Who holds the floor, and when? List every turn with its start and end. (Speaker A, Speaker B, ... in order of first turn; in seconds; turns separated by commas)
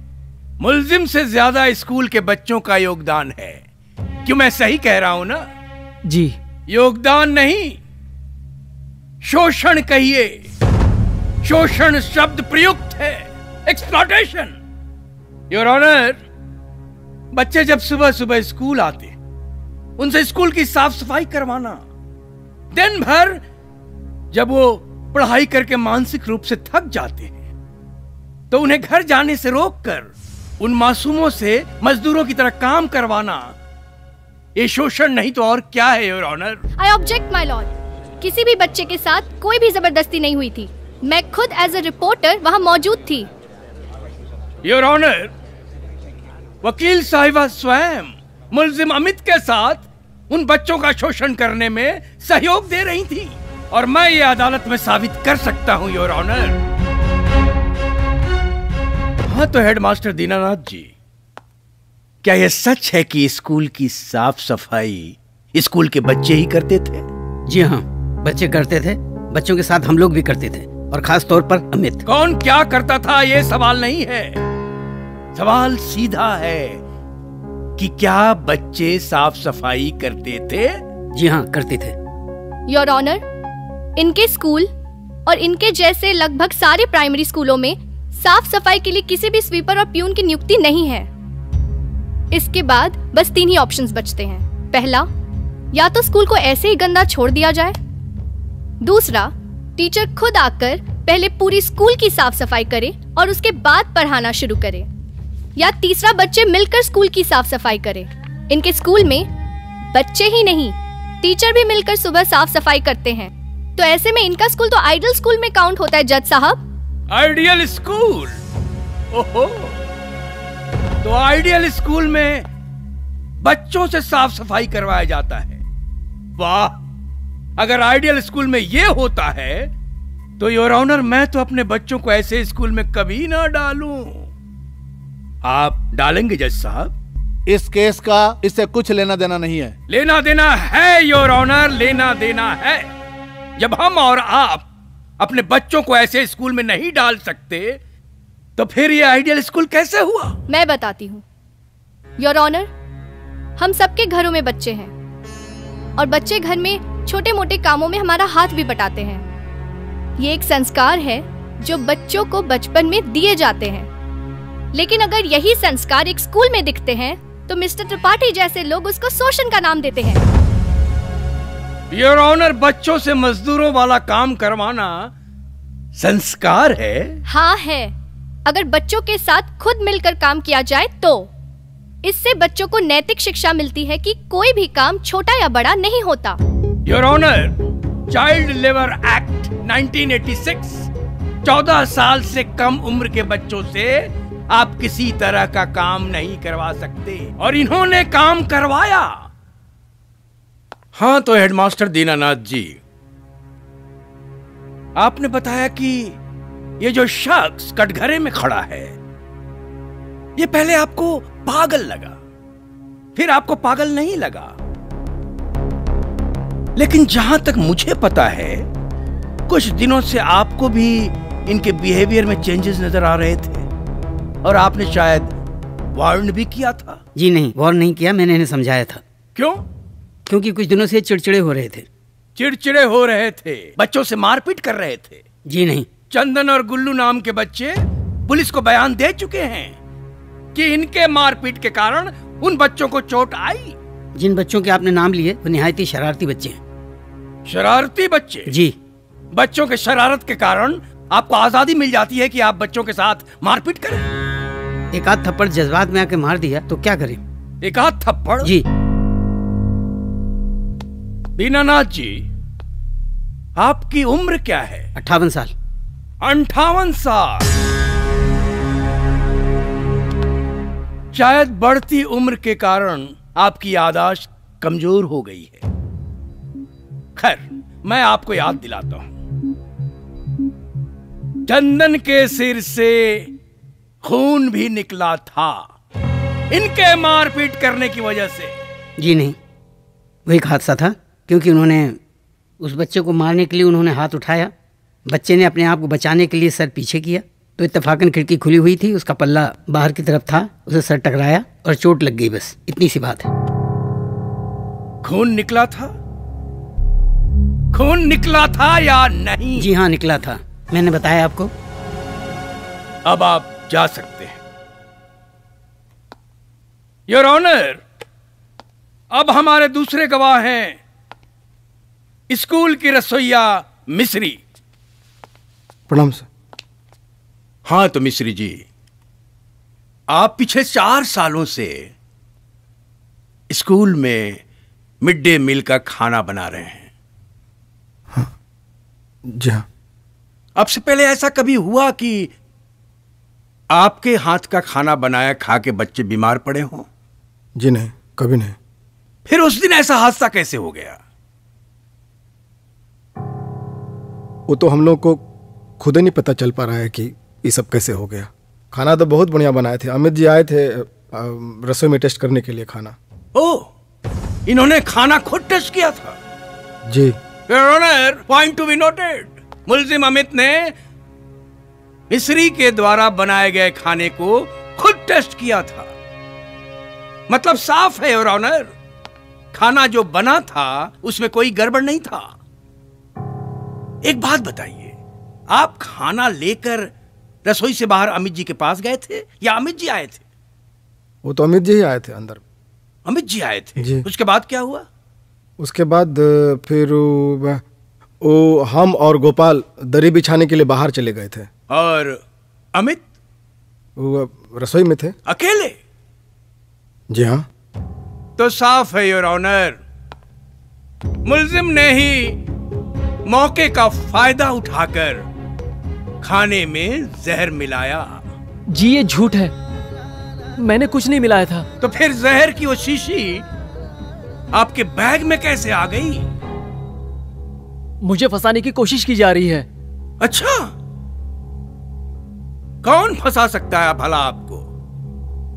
Speaker A: 0.6-3.6, Speaker A: 4.2-5.5, Speaker B: 6.1-6.3, Speaker A: 6.7-7.8, Speaker A: 9.2-10.4, Speaker A: 11.4-14.6, Speaker A: 15.5-16.2, Speaker A: 17.3-19.1, Speaker A: 20.0-21.8, Speaker A: 22.7-23.4, Speaker A: 24.3-27.4, Speaker A: 28.5-30.1, Speaker A: 30.6-33.5, Speaker A: 34.6-36.6, Speaker C: 36.8-43.3, Speaker A: 44.6-45.3, Speaker A: 46.6-56.6, Speaker A: 59.3-60.9, Speaker A: 62.2-67.0, Speaker D: 67.5-72.0, Speaker A: 72.1-74.4, Speaker A: 75.3-76.8, Speaker A: 77.8-80.8, Speaker D: 81.2-81.9, Speaker C: 82.7-83.2, Speaker C: 84.0-84.7, Speaker C: 85.3-91.1, Speaker C: 92.3-95.1, Speaker C: 95.7-97.8, Speaker C: 98.8-104.9, Speaker C: 105.6-109.3, Speaker C: 109.9-116.6, Speaker A: 117.1-118.4, Speaker A: 119.1-119.8, Speaker A: 121.0-122.5, Speaker A: 123.4-125.6, Speaker A: 126.4-126.8, Speaker A: 127.6-129.7, Speaker A: 130.4-134.3, Speaker A: 135.4-136.9, Speaker E: 137.5-139.8, Speaker A: 139.9-142.9, Speaker A: 143.6-144.7, Speaker A: 145.2-147.8, Speaker A: 148.6-150.4, Speaker C: 150.5-151.2, Speaker C: 152.2-152.7, Speaker C: 153.6-154.9, Speaker C: 156.0-159.2, Speaker C: 160.2-163.9, Speaker C: 164.7-170.2, Speaker A: 171.9-175.1, Speaker A: 176.0-177.2, Speaker C: 177.3-177.9, Speaker C: 178.5-181.3, Speaker C: 182.0-186.4, Speaker A: 186.9-187.5, Speaker A: 188.1-190.9, Speaker A: 191.4-199.2, Speaker A: 201.0-202.8, Speaker A: 205.0-206.2, Speaker A: 206.8-208.9, Speaker A: 210.4-212.2, Speaker A: 213.2-214.5, Speaker A: 216.8-218.7, Speaker A: 219.5-223.7, Speaker A: 224.4-225.3, Speaker A: 225.9-227.0, Speaker D: 227.2-229.0, Speaker A: 229.4-229.6, Speaker D: 230.3-231.9, Speaker A: 232.4-235.2, Speaker D: 235.5-235.9, Speaker A: 236.1-239.8, Speaker A: 240.6-243.8, Speaker D: 244.2-246.6, Speaker A: 247.5-248.5, Speaker D: 248.5-248.7, Speaker A: 249.3-254.1, Speaker D: 254.9-257.2, Speaker A: 257.6-258.5, Speaker A: 261.4-262.2, Speaker A: 263.6-264.9, Speaker D: 265.0-265.5, Speaker A: 266.2-267.4, Speaker A: 271.1-275.6, Speaker A: 277.2-279.1, Speaker A: 281.5-283.3, Speaker A: 284.1-285.7, Speaker A: 286.5-288.6, Speaker D: 289.0-289.4, Speaker D: 290.3-292.0, Speaker D: 292.6-294.5, Speaker D: 295.1-303.3, Speaker A: 305.0-305.9, Speaker A: 307.7-309.7, Speaker D: 309.6-311.5, Speaker A: 313.1-314.4, Speaker A: 317.1-317.8, Speaker A: 319.1-320.8, Speaker A: 322.3-324.4, Speaker F: 325.9-326.3, Speaker A: 327.7-328.6, Speaker A: 330.1-331.9, Speaker A: 333.5-334.4, Speaker A: 335.0-336.9, Speaker F: 339.3-339.6, Speaker A: 340.6-342.3, Speaker A: 343.7-346.9, Speaker F: 347.6-348.6, Speaker A: 349.3-351.0, Speaker F: 354.5-355.2, Speaker F: 355.8-363.0, Speaker A: 363.4-363.7, Speaker A: 364.5-366.2, Speaker F: 366.9-367.1, Speaker A: 367.5-370.7, Speaker A: 372.1-375.9, Speaker A: 377.3-378.7, Speaker A: 379.5-382.3, Speaker A: 384.1-384.9, Speaker A: 385.5-386.9, Speaker A: 387.4-390.2, Speaker F: 391.2-392.4, Speaker A: 393.1-394.9, Speaker F: 393.8-394.1, Speaker F: 395.6-397.6, Speaker F: 398.2-401.5, Speaker A: 401.7-402.2, Speaker A: 402.8-403.0, Speaker F: 404.0-405.1, Speaker A: 405.3-405.8, Speaker F: 407.1-407.4, Speaker A: 408.4-409.8, Speaker A: 411.3-412.4, Speaker A: 413.3-415.2, Speaker A: 416.2-418.2, Speaker B: 418.7-419.5, Speaker B: 420.6-421.7, Speaker A: 421.8-423.4, Speaker A: 424.5-426.3, Speaker B: 428.0-429.7, Speaker A: 430.2-430.7, Speaker A: 432.8-434.6